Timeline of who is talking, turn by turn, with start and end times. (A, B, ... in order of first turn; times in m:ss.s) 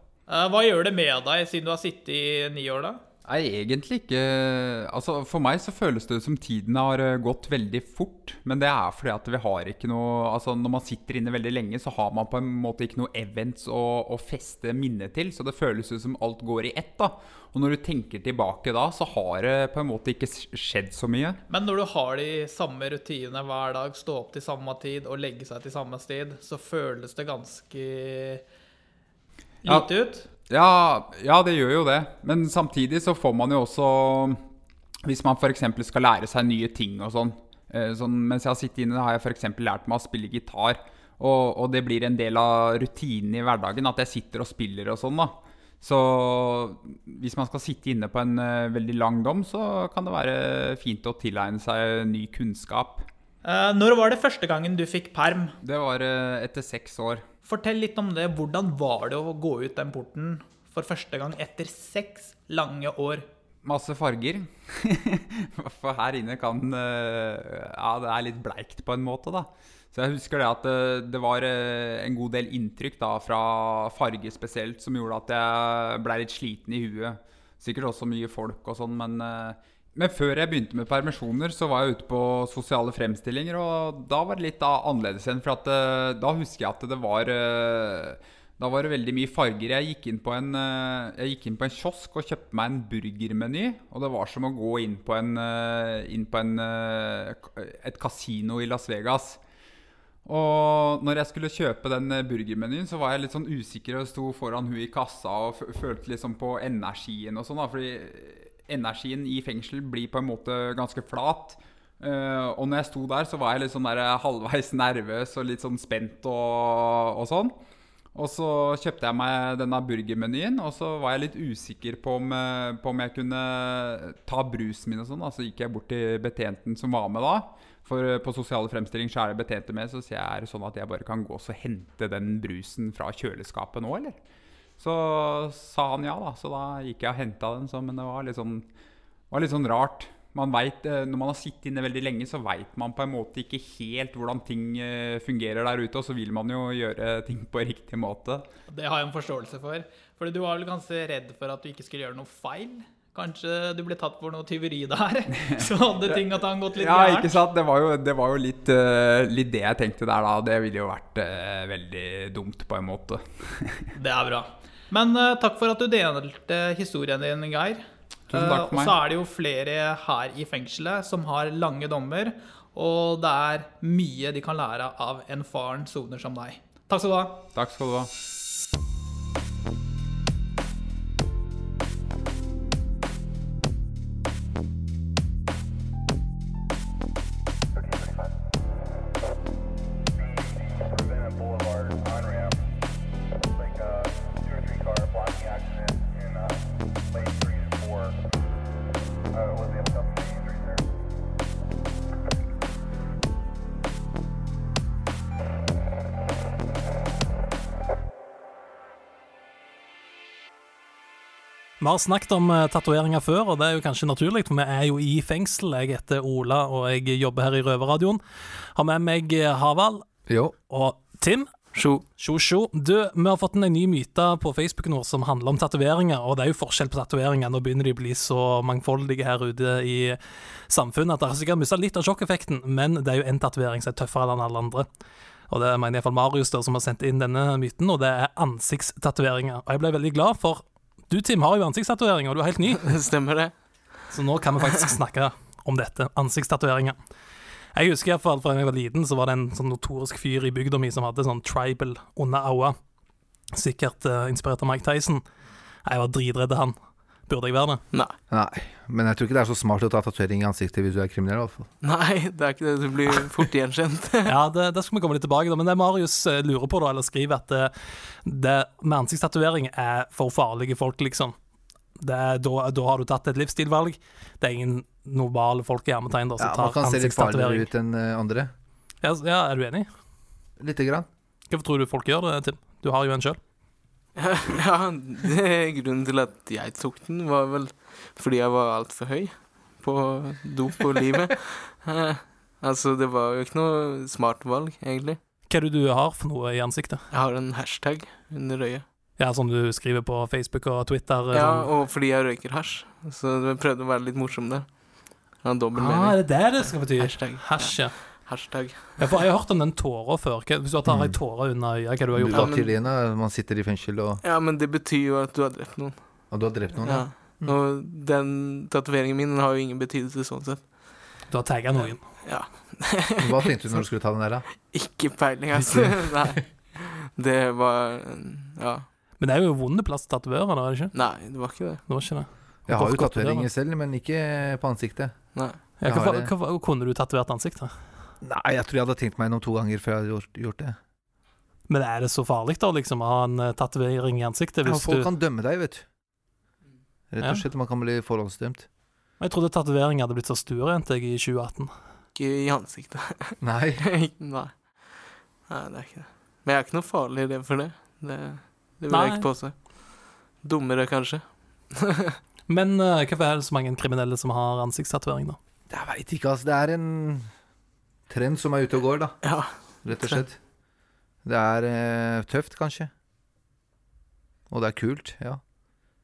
0:00.3-0:03.0 A
0:03.2-0:21.4 B
0:21.5-0:28.4 A
0:29.6-0:30.3 A
0:30.5-0:34.4 B
0:35.0-0:53.0 B
0:53.4-0:55.5 A
0:55.6-0:57.2 B
0:57.4-1:03.3 A
1:03.6-1:39.4 B
1:40.2-1:57.5 B
1:58.1-2:14.2 B
2:14.8-2:18.6 B
2:19.3-2:28.4 B
2:28.7-2:37.4 A
2:35.4-2:43.9 B
2:43.9-2:57.4 A
2:48.3-2:49.0 B
2:57.5-2:58.1 B
3:07.7-3:08.3 C
3:10.1-3:12.6 C
3:13.5-3:18.2 C
3:19.3-3:20.8 C
3:31.8-3:38.2 D
3:38.7-3:40.0 D
3:40.3-3:40.5 E
3:40.7-3:41.6 D
3:41.7-3:42.0 F
3:42.1-3:54.8 D
3:55.5-4:02.9 D
4:02.8-4:03.5 F
4:04.1-4:07.0 D
4:07.7-4:12.8 D
4:13.5-4:15.2 D
4:15.8-4:16.7 D
4:17.3-4:17.8 D
4:18.3-4:21.7 E
4:21.8-4:24.3 F
4:24.2-4:27.7 D
4:28.2-4:31.3 D
4:32.0-4:37.7 D
4:36.4-4:38.5 E
4:39.0-4:39.9 D
4:40.6-4:41.1 E
4:41.5-4:43.4 D
4:44.2-4:55.2 F
4:55.5-4:57.0 D
4:57.1-4:58.8 F
4:59.2-5:01.7 D
5:01.3-5:09.2 F
5:05.7-5:08.1 D
5:09.0-5:12.6 D
5:10.8-5:11.2 E
5:12.1-5:14.2 E
5:12.3-5:12.7 F
5:14.2-5:16.2 F
5:16.3-5:17.5 E
5:16.8-5:21.0 F
5:21.3-5:22.1 D
5:21.8-5:23.8 F
5:23.2-5:24.4 E
5:24.6-5:28.9 F
5:29.2-5:30.9 D
5:30.9-5:31.8 F
5:31.8-5:33.5 D
5:32.7-5:36.3 E
5:35.3-5:35.7 F
5:35.8-5:37.7 D
5:38.2-5:40.8 E
5:41.7-5:45.1 D
5:44.6-5:45.8 E
5:47.1-5:48.7 E
5:49.2-5:51.7 D
5:52.1-6:02.2 F
5:53.4-5:53.8 E
5:58.9-5:59.3 D
6:02.5-6:05.4 D
6:05.7-6:07.3 E
6:08.1-6:09.2 E
6:09.2-6:10.2 F
6:09.8-6:10.4 E
6:11.2-6:12.9 E
6:14.5-6:15.4 E